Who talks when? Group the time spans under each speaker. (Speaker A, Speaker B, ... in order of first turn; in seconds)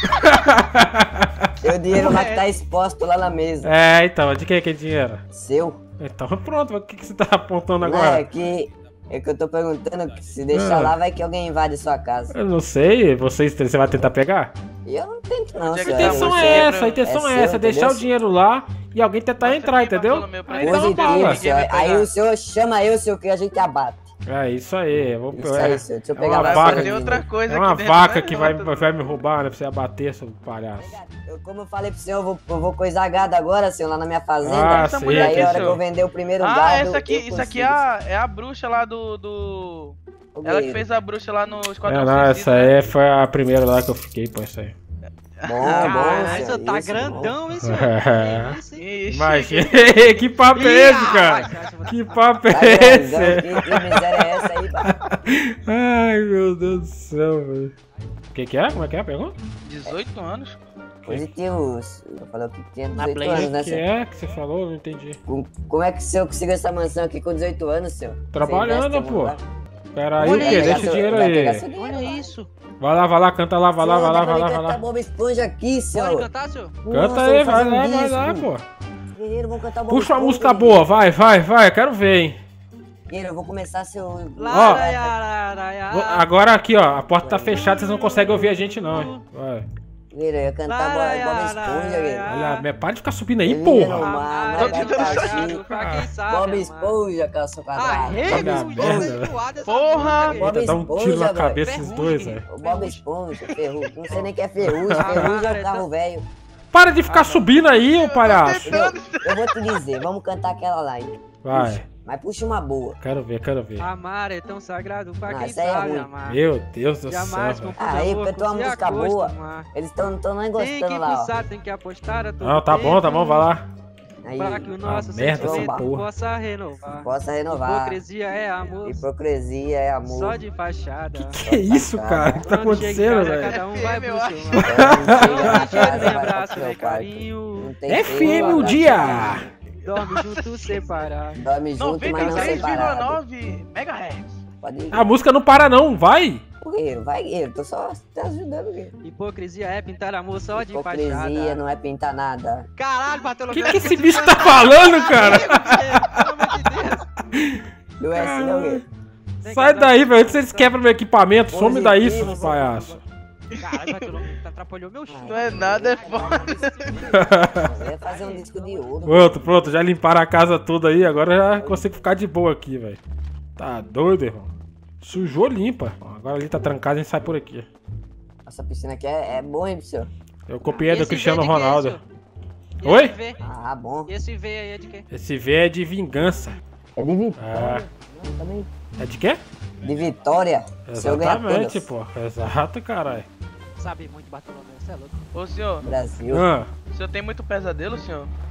Speaker A: 0.2-2.2, 3.6-5.2, 6.0-8.2, 10.5-10.9, 12.3-14.5, 15.9-21.4, 24.3-31.0, 34.4-35.8, 41.9-44.7, 47.6-48.6, 49.1-57.7, 58.3-59.4, 63.3-65.2, 68.3-69.4, 70.0-71.6, 72.8-74.8, 76.9-78.7, 79.9-82.4, 84.5-84.8, 85.9-89.7, 92.3-94.1, 95.7-96.1, 98.1-99.3, 100.4-102.5, 104.6-105.3, 106.7-108.8, 111.4-111.9, 113.0-113.9, 116.3-117.7, 122.4-123.7, 124.8-126.0, 131.2-133.6, 134.6-135.5, 137.9-139.5, 144.9-146.4, 153.5-156.3, 157.3-157.6, 158.2-158.8, 159.4-163.0, 167.1-167.7, 169.1-173.0, 173.6-174.5, 175.0-177.7, 180.5-182.0, 182.8-183.1, 185.1-186.6, 187.4-187.8, 189.0-189.4, 190.9-193.3, 196.3-196.7
Speaker B: 1.6-3.7, 5.3-5.8, 7.8-12.3, 14.8-18.1, 20.6-24.1, 25.3-27.3, 30.8-37.8, 40.4-40.8, 45.5-47.4, 52.5-54.9, 61.1-63.8, 65.3-69.4, 70.2-72.3, 73.8-76.3, 76.8-78.5, 79.1-80.8, 83.1-85.2, 90.1-92.2, 93.5-95.6, 96.3-99.2, 100.0-101.9, 102.4-106.2, 108.7-113.0, 115.3-116.1, 117.8-121.3, 124.2-124.7, 125.4-125.8, 126.9-128.0, 128.8-130.4, 131.4-132.6, 134.6-139.5, 141.4-143.2, 144.6-145.1, 146.6-148.9, 150.5-152.7, 158.0-158.8, 161.5-162.8, 165.1-169.7, 171.6-171.9, 178.5-180.1, 183.4-184.1, 187.0-188.7, 189.8-191.9, 195.8-196.5
Speaker C: 2.0-2.5, 45.7-48.9, 50.5-52.4, 62.9-63.5, 70.2-71.0, 71.8-72.5, 75.9-76.8, 84.4-86.3, 87.3-89.2, 90.7-92.7, 93.7-97.0, 97.8-100.8, 101.4-103.0, 105.0-105.8, 113.8-116.4, 117.1-119.7, 120.6-123.5, 124.3-129.0, 130.1-131.4, 132.4-139.3, 139.8-141.4, 142.1-142.8, 149.0-151.6, 152.8-157.1, 159.4-160.8, 162.2-162.9, 163.6-168.9, 180.6-182.0, 182.8-183.4, 184.1-185.1, 193.8-195.2
Speaker D: 15.6-17.1, 19.4-22.1, 26.4-28.9, 34.5-35.8, 36.4-42.8, 45.4-46.6, 48.8-50.0, 59.6-60.6, 94.6-95.6, 99.6-100.5, 103.4-104.2, 107.1-109.8, 133.1-134.7, 139.8-141.1, 141.8-144.4, 153.6-156.2, 163.5-164.2, 165.2-167.0, 195.3-195.9, 196.9-198.3